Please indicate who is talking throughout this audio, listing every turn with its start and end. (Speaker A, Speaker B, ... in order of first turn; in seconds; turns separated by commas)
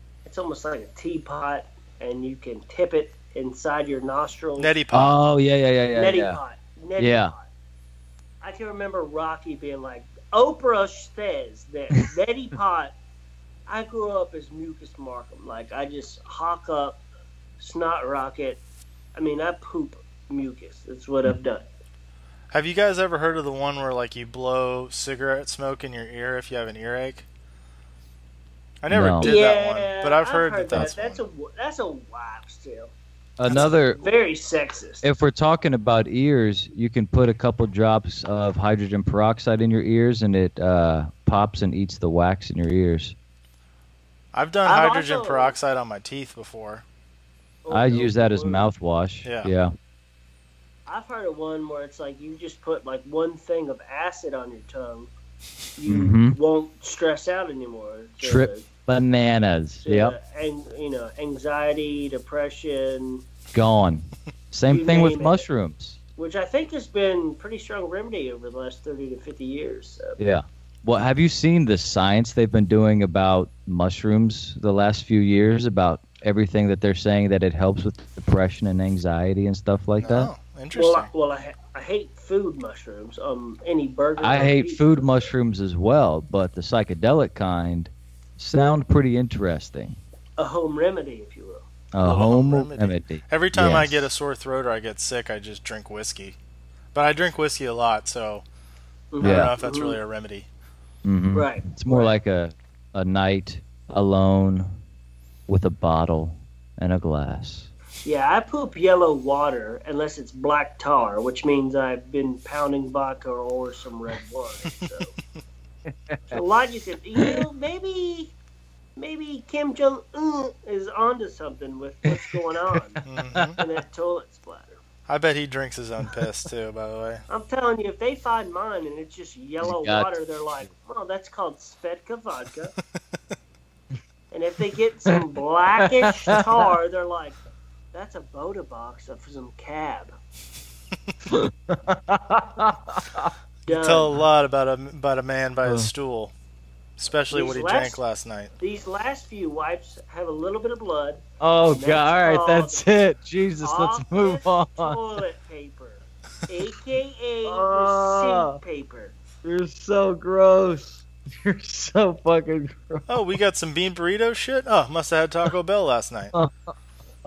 Speaker A: 0.2-4.8, Speaker B: 4.6-5.2, Speaker C: 4.9-6.4, Speaker A: 5.9-7.5, Speaker C: 7.0-7.3, Speaker A: 8.4-12.9, Speaker A: 13.7-17.0, Speaker A: 17.6-18.6, Speaker A: 19.1-21.7, Speaker B: 22.5-27.3, Speaker B: 28.8-31.2, Speaker C: 28.9-29.4, Speaker A: 29.2-32.9, Speaker C: 33.4-34.0, Speaker A: 33.5-35.1, Speaker C: 35.0-43.1, Speaker B: 44.3-46.9, Speaker A: 44.7-45.6, Speaker A: 47.6-48.7, Speaker C: 47.7-49.7, Speaker B: 49.2-49.5, Speaker A: 50.9-55.1, Speaker A: 55.8-58.6, Speaker C: 55.9-56.4, Speaker C: 58.2-60.2, Speaker A: 59.9-63.2, Speaker C: 63.5-66.0, Speaker A: 64.7-65.5, Speaker A: 66.2-70.2, Speaker C: 70.2-80.3, Speaker B: 80.0-81.1, Speaker A: 80.7-85.1, Speaker C: 84.2-90.0, Speaker A: 90.4-91.7, Speaker C: 91.9-94.1, Speaker B: 92.0-96.4, Speaker B: 96.9-98.4, Speaker A: 99.1-100.0, Speaker B: 99.2-100.5, Speaker C: 99.2-99.5, Speaker C: 101.0-104.8, Speaker A: 101.3-102.1, Speaker C: 105.5-107.7, Speaker A: 108.0-115.1, Speaker C: 115.9-116.4, Speaker A: 116.3-118.3, Speaker C: 117.2-117.4, Speaker A: 119.0-123.0, Speaker C: 122.1-123.6, Speaker B: 123.1-123.6, Speaker A: 123.6-124.8, Speaker B: 125.1-127.2, Speaker A: 127.3-132.8, Speaker C: 129.6-130.1, Speaker A: 134.3-137.4, Speaker C: 135.8-136.7, Speaker A: 137.9-140.1, Speaker C: 141.3-143.3, Speaker A: 143.7-144.1, Speaker B: 143.7-146.3, Speaker C: 145.7-145.9, Speaker B: 147.0-148.5, Speaker A: 147.3-148.0, Speaker A: 148.6-152.9, Speaker C: 151.4-155.0, Speaker A: 153.6-159.2, Speaker C: 157.4-158.6, Speaker C: 159.4-163.2, Speaker B: 163.1-166.3, Speaker C: 166.3-166.7